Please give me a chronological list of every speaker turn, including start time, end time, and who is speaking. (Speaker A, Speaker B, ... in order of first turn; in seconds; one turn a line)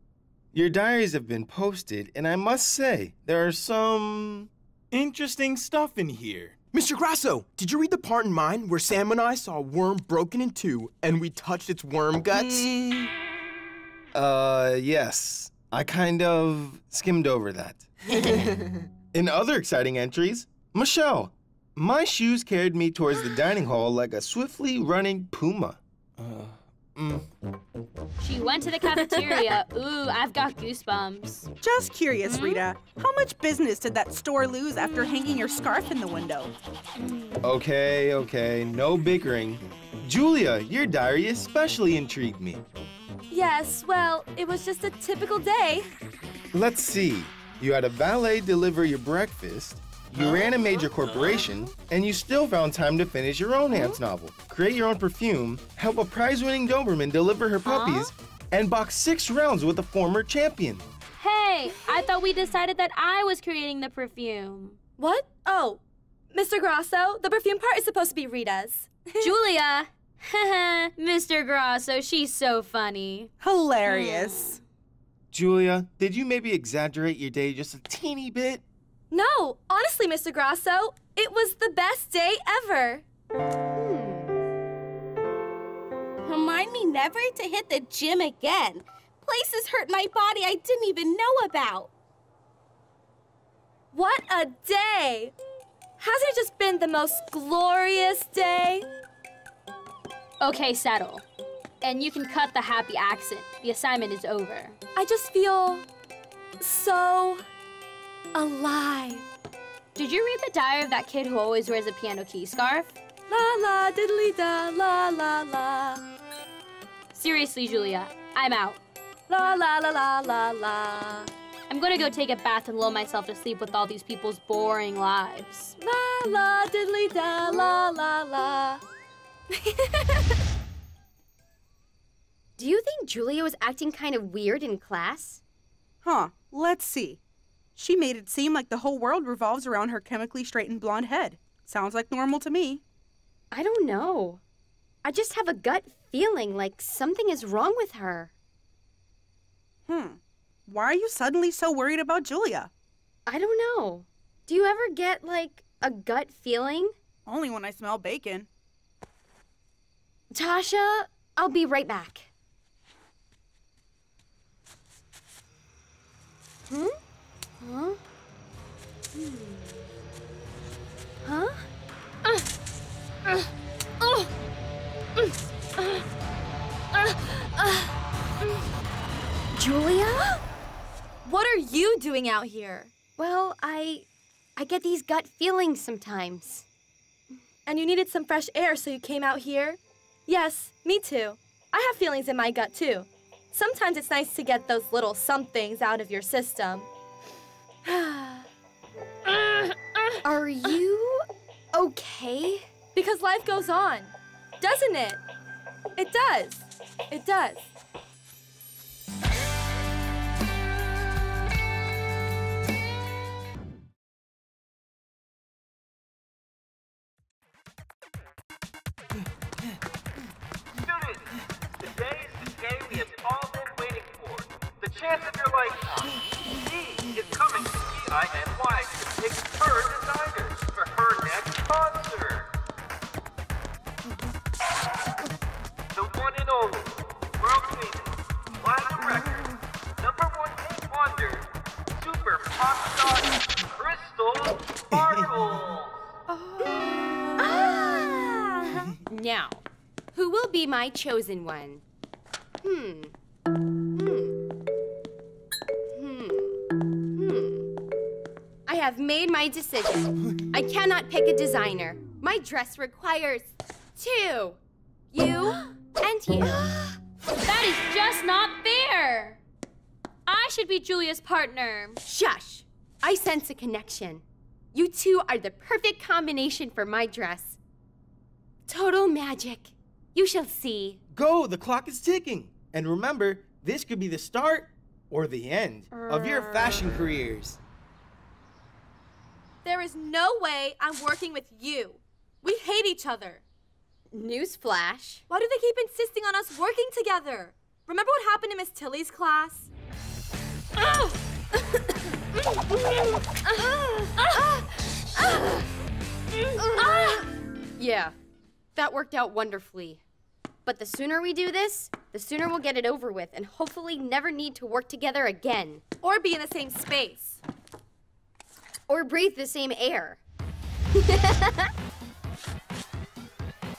Speaker A: 0.5-6.6
Speaker B: 6.7-12.7
Speaker A: 12.4-12.7
Speaker A: 14.1-18.4
Speaker A: 19.1-27.3
Speaker C: 28.2-31.5
Speaker D: 29.1-29.4
Speaker E: 31.6-36.5
Speaker C: 32.2-32.6
Speaker D: 37.0-37.4
Speaker A: 37.4-42.6
Speaker D: 43.3-45.9
Speaker A: 46.5-60.9
Speaker D: 57.7-58.1
Speaker C: 61.2-64.8
Speaker D: 65.0-65.8
Speaker D: 66.3-69.3
Speaker C: 69.2-73.3
Speaker E: 73.4-74.6
Speaker A: 75.3-78.6
Speaker D: 79.1-83.0
Speaker F: 83.8-84.4
Speaker G: 86.2-91.9
Speaker D: 93.9-95.3
Speaker D: 96.0-98.8
Speaker C: 100.4-101.2
Speaker C: 101.8-104.8
Speaker D: 105.0-105.9
Speaker D: 106.6-107.4
Speaker D: 108.3-109.3
Speaker C: 110.0-113.0
Speaker D: 113.3-116.0
Speaker C: 117.1-118.8
Speaker D: 119.3-121.3
Speaker C: 121.7-125.8
Speaker D: 125.8-128.8
Speaker D: 129.5-130.4
Speaker F: 132.6-135.4
Speaker E: 136.0-137.2
Speaker E: 137.8-142.8
Speaker F: 143.5-144.4
Speaker F: 145.0-148.3
Speaker E: 149.9-152.7
Speaker F: 153.3-156.9
Speaker E: 157.3-158.5
Speaker F: 160.3-162.3
Speaker F: 166.7-167.0
Speaker F: 167.6-168.0
Speaker F: 169.2-169.8
Speaker D: 174.0-174.3
Speaker D: 175.2-176.0
Speaker D: 176.9-177.9
Speaker F: 179.6-180.4
Speaker D: 181.2-182.9
Speaker F: 183.2-186.7
Speaker D: 187.7-196.9
Speaker D: 197.8-198.5
Speaker D: 199.3-200.2
Speaker F: 200.2-202.7
Speaker D: 202.9-205.2
Speaker D: 206.0-207.7
Speaker H: 220.8-232.5
Speaker H: 235.9-239.5
Speaker H: 240.0-246.1
Speaker D: 246.3-247.7
Speaker F: 247.4-249.6
Speaker F: 250.1-251.8
Speaker F: 252.6-253.1
Speaker F: 253.9-254.3
Speaker F: 255.9-256.6
Speaker F: 257.1-257.7
Speaker F: 258.7-264.6
Speaker F: 265.1-267.0
Speaker C: 267.4-269.4
Speaker C: 270.3-272.0
Speaker F: 272.1-277.6
Speaker F: 278.7-281.0
Speaker A: 281.1-287.6
Speaker D: 289.6-293.4
Speaker F: 294.1-295.2
Speaker D: 295.3-299.7
Speaker D: 300.8-301.1
Speaker F: 303.4-304.5
Speaker D: 304.2-304.5
Speaker F: 306.6-307.2
Speaker D: 306.6-307.2
Speaker F: 307.8-308.1
Speaker F: 308.8-310.0
Speaker F: 310.6-315.8
Speaker D: 316.0-317.4
Speaker F: 318.9-320.2
Speaker F: 320.9-321.7